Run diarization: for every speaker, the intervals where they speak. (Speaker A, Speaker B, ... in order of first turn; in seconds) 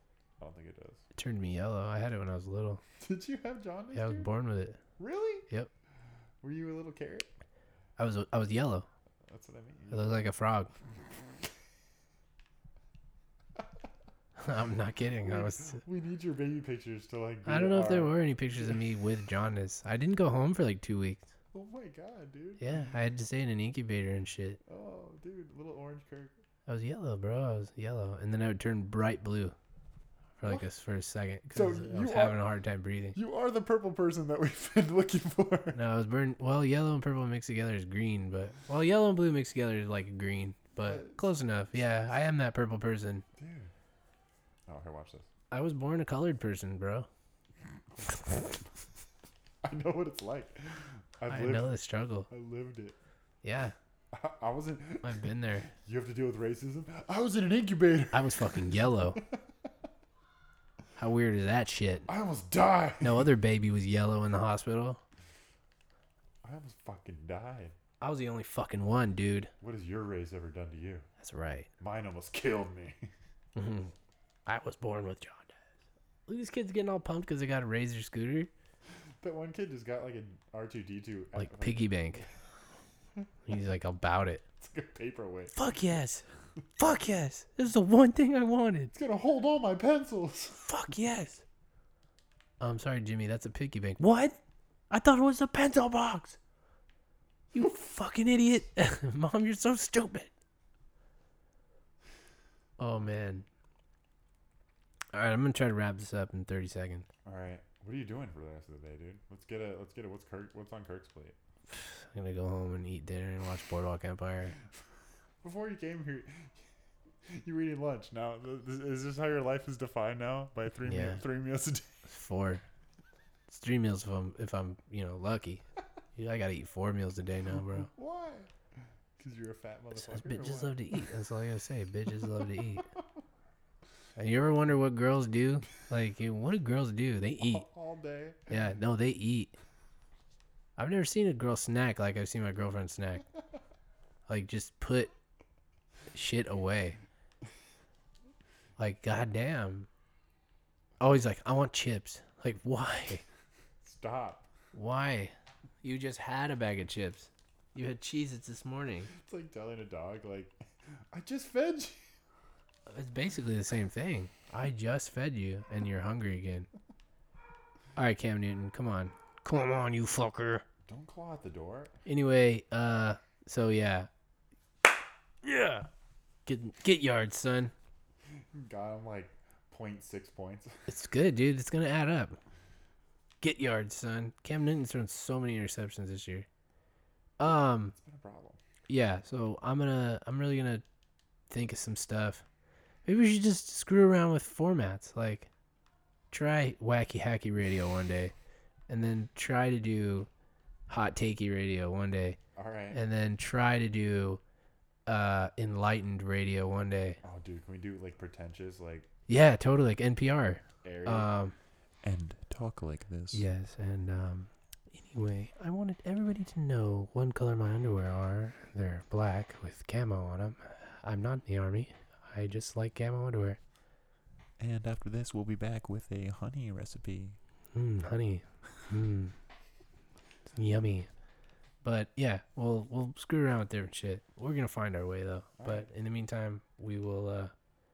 Speaker A: 0.4-1.0, 3.0-4.3, 5.0-5.5, 6.4-7.3, 9.3-10.1, 15.2-18.8, 21.5-22.6, 24.6-26.4, 31.5-32.4, 33.1-35.8, 40.8-41.2, 43.4-43.7, 44.7-45.3, 48.1-48.5, 49.6-51.7, 52.3-53.0, 54.1-59.5, 62.1-63.3, 66.4-67.8, 69.6-71.1, 71.8-73.1, 79.2-82.3, 84.6-85.5, 88.9-90.7, 107.2-111.3, 115.4-116.7, 117.2-122.0, 127.6-128.5, 129.2-131.0, 137.4-138.5, 153.8-154.5, 159.1-160.6, 161.1-162.1, 170.9-172.0, 178.5-180.8, 187.4-188.6, 202.5-203.0, 207.2-209.1, 210.8-211.3, 212.0-213.4, 224.6-227.4, 235.6-235.9
Speaker B: 1.1-2.8, 3.9-4.8, 8.0-8.9, 9.9-10.7, 14.4-15.8, 17.4-21.3, 22.6-24.6, 26.7-29.5, 30.4-33.2, 35.7-43.2, 45.5-47.1, 51.3-52.3, 53.4-53.7, 55.0-55.7, 58.1-59.2, 61.0-62.1, 63.0-65.0, 68.0-69.5, 71.2-71.7, 73.5-73.9, 74.5-75.6, 76.3-78.5, 81.3-82.2, 83.4-84.4, 85.5-86.2, 86.8-88.9, 90.6-91.4, 92.6-96.4, 97.5-100.3, 102.8-103.5, 105.1-107.1, 111.7-114.5, 120.8-121.2, 122.0-122.6, 123.5-125.6, 126.2-127.9, 129.9-132.8, 134.2-137.7, 138.5-139.5, 140.8-143.2, 144.3-145.1, 146.1-147.0, 148.8-149.9, 151.0-153.2, 154.7-159.1, 162.9-166.7, 167.9-170.6, 172.1-174.1, 175.4-175.9, 176.4-177.7, 180.9-182.4, 183.4-186.5, 187.4-187.9, 188.9-190.8, 191.5-192.4, 193.0-195.5, 196.3-198.3, 198.9-200.3, 200.9-202.4, 202.9-204.4, 205.1-207.2, 209.3-211.5, 213.3-223.6, 227.7-229.3, 230.5-231.1, 231.8-237.5